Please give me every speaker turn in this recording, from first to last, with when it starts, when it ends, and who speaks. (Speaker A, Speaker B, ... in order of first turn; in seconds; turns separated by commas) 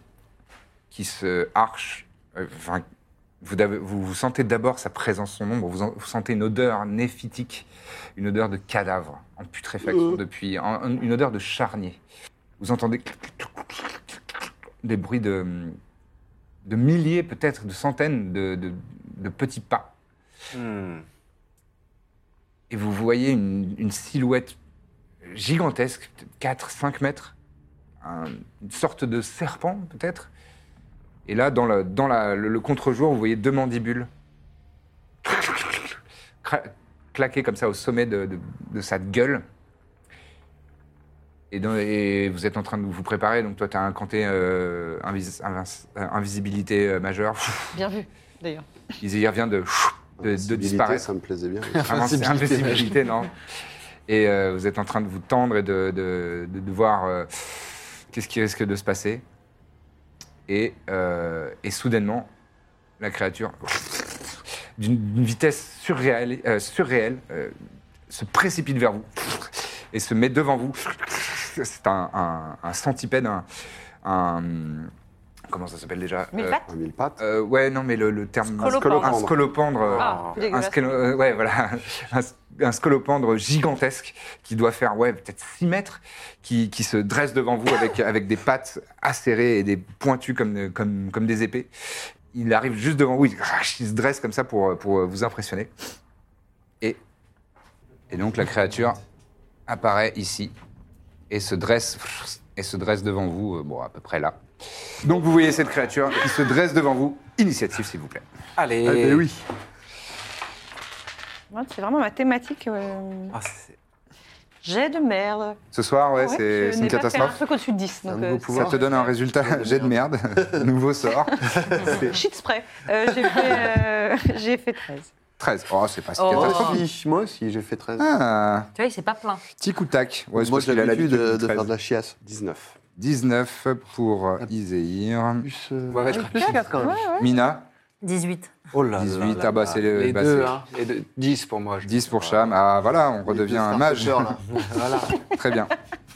Speaker A: 0.9-2.8, Speaker A: 3.4-12.0, Speaker A: 12.6-15.8, Speaker A: 16.6-19.9, Speaker B: 20.5-21.1, Speaker A: 22.7-24.6, Speaker A: 25.2-27.3, Speaker A: 28.0-30.3, Speaker A: 31.3-34.1, Speaker A: 35.2-39.5, Speaker A: 41.5-47.8, Speaker C: 47.7-48.7, Speaker A: 49.0-51.1, Speaker D: 50.2-52.1, Speaker A: 51.8-53.4, Speaker B: 51.8-52.9, Speaker E: 52.4-52.7, Speaker A: 54.1-59.2, Speaker A: 60.5-62.3, Speaker A: 63.0-67.6, Speaker A: 68.1-73.5, Speaker A: 74.0-74.9, Speaker A: 75.5-76.6, Speaker C: 76.3-76.7, Speaker D: 76.7-77.2, Speaker A: 77.2-91.7, Speaker F: 78.6-79.2, Speaker D: 78.6-79.5, Speaker B: 79.8-80.4, Speaker C: 80.0-81.1, Speaker A: 92.3-95.7, Speaker A: 98.1-99.0, Speaker A: 99.7-100.5, Speaker A: 101.3-104.4, Speaker A: 105.0-108.2, Speaker B: 108.6-109.3, Speaker E: 108.8-109.4, Speaker C: 111.5-113.4, Speaker B: 113.3-113.8, Speaker C: 114.6-115.6, Speaker A: 115.7-117.4, Speaker C: 116.2-119.0, Speaker E: 118.1-118.8, Speaker A: 118.5-122.1, Speaker E: 119.4-120.7, Speaker E: 121.4-122.1, Speaker C: 121.9-125.1, Speaker A: 125.4-126.8, Speaker F: 126.2-126.8, Speaker E: 126.3-128.1, Speaker A: 128.0-128.7, Speaker F: 128.8-129.4, Speaker A: 129.6-131.7, Speaker E: 130.4-132.2, Speaker D: 132.2-132.8, Speaker A: 133.0-135.5, Speaker E: 135.4-137.2, Speaker B: 135.9-136.7, Speaker C: 136.8-137.3, Speaker A: 137.2-137.7, Speaker F: 138.0-138.7, Speaker B: 138.7-142.6, Speaker A: 138.9-140.6, Speaker A: 141.8-144.4, Speaker E: 143.3-144.6, Speaker B: 144.5-145.2, Speaker A: 145.3-145.8